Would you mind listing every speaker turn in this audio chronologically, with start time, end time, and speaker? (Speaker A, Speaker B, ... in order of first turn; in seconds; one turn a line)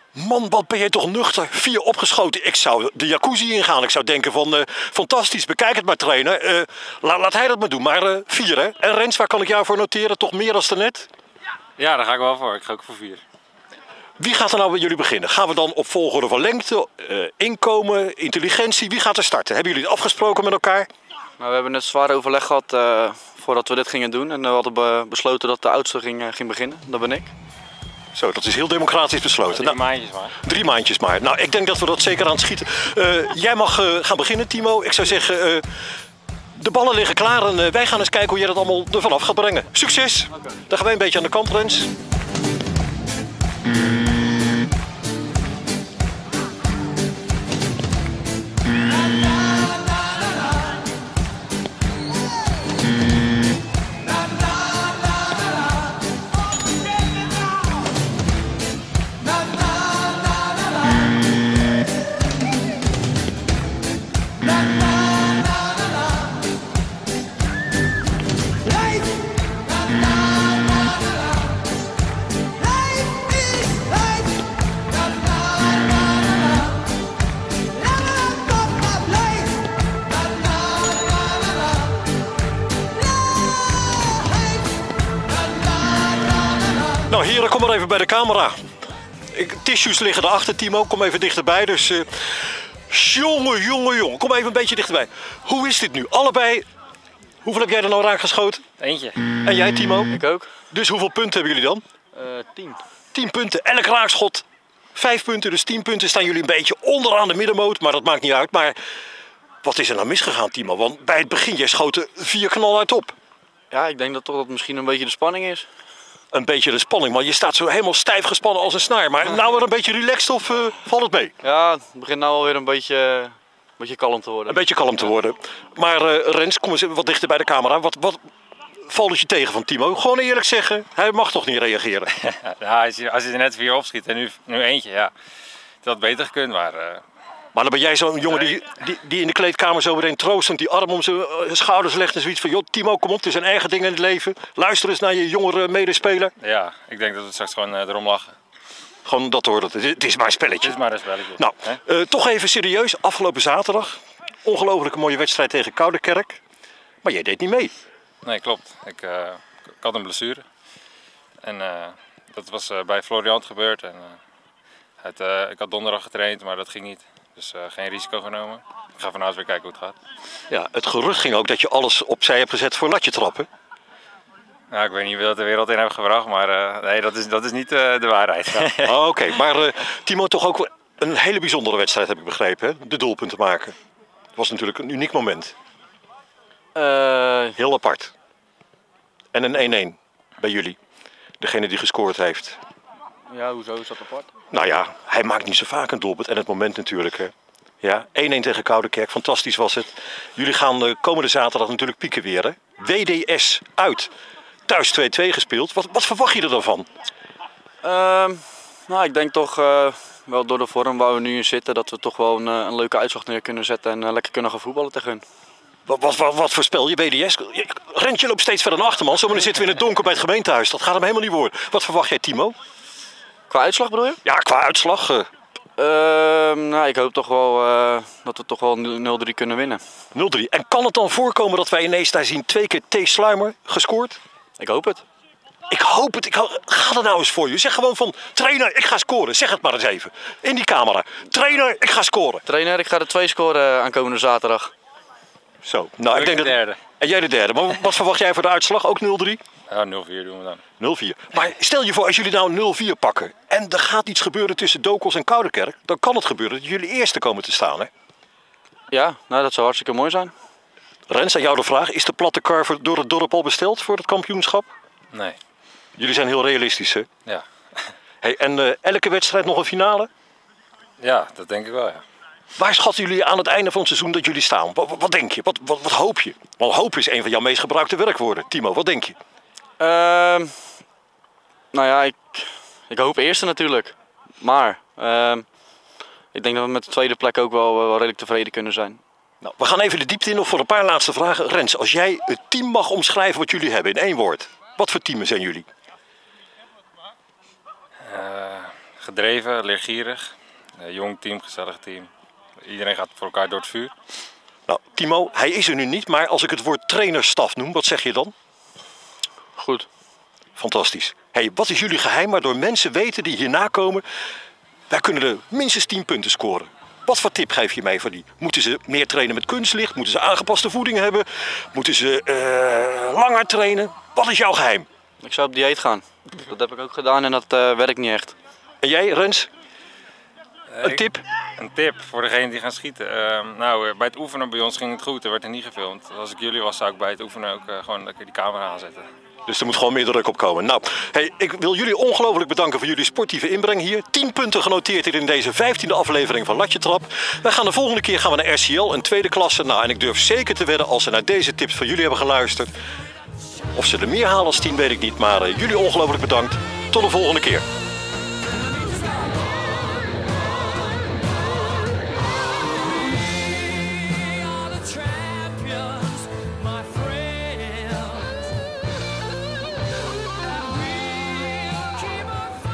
Speaker A: 0.1-11.1
Speaker B: 11.8-13.2
Speaker A: 14.2-20.9
Speaker C: 21.4-27.3
Speaker A: 28.1-29.8
Speaker B: 29.5-30.4
Speaker A: 30.4-35.6
Speaker A: 36.5-41.9
Speaker A: 87.1-88.6
Speaker A: 89.3-96.6
Speaker A: 97.4-98.6
Speaker B: 98.8-99.2
Speaker A: 99.4-100.1
Speaker C: 100.1-100.5
Speaker A: 100.7-101.8
Speaker C: 102.1-102.8
Speaker A: 103.1-108.8
Speaker A: 109.6-113.1
Speaker C: 113.7-115.7
Speaker A: 116.3-121.3
Speaker C: 121.4-124.6
Speaker A: 124.5-128.2
Speaker A: 128.8-132.1
Speaker B: 132.1-135.1
Speaker B: 135.8-137.0
Speaker A: 137.5-146.3
Speaker B: 146.4-148.3
Speaker A: 149.0-150.8
Speaker B: 150.6-151.8
Speaker A: 151.3-156.4
Speaker A: 157.0-157.7
Speaker B: 158.2-160.4
Speaker B: 161.4-164.2
Speaker B: 165.0-170.0
Speaker A: 170.5-173.5
Speaker B: 174.7-179.0
Speaker A: 178.8-183.7
Speaker A: 184.3-185.5
Speaker C: 186.7-187.6
Speaker A: 187.6-188.1
Speaker A: 189.3-190.8
Speaker A: 191.4-192.6
Speaker C: 193.3-194.3
Speaker A: 194.5-204.1
Speaker A: 204.7-206.9
Speaker C: 207.8-215.2
Speaker A: 215.8-222.5
Speaker C: 223.5-224.2
Speaker A: 224.2-225.3
Speaker C: 225.8-229.8
Speaker A: 230.1-234.2
Speaker C: 234.6-235.0
Speaker A: 235.7-242.4
Speaker C: 242.4-244.7
Speaker A: 245.6-249.4
Speaker B: 246.1-246.8
Speaker B: 249.7-250.6
Speaker A: 250.8-257.9
Speaker C: 258.9-260.3
Speaker A: 261.1-264.7
Speaker A: 266.0-267.1
Speaker A: 268.2-270.1
Speaker B: 271.0-272.0
Speaker A: 272.6-279.2
Speaker C: 279.8-280.6
Speaker C: 281.7-285.4
Speaker C: 286.3-289.0
Speaker A: 289.4-295.7
Speaker B: 298.0-302.1
Speaker B: 302.6-303.9
Speaker A: 304.7-308.3
Speaker C: 309.6-309.9
Speaker A: 310.6-314.0
Speaker A: 314.9-324.9
Speaker C: 325.2-328.4
Speaker A: 328.8-329.5
Speaker B: 330.7-331.0
Speaker A: 330.8-331.2
Speaker B: 331.6-339.1
Speaker A: 339.5-352.7
Speaker A: 353.7-357.6
Speaker C: 364.0-368.3
Speaker C: 371.4-372.3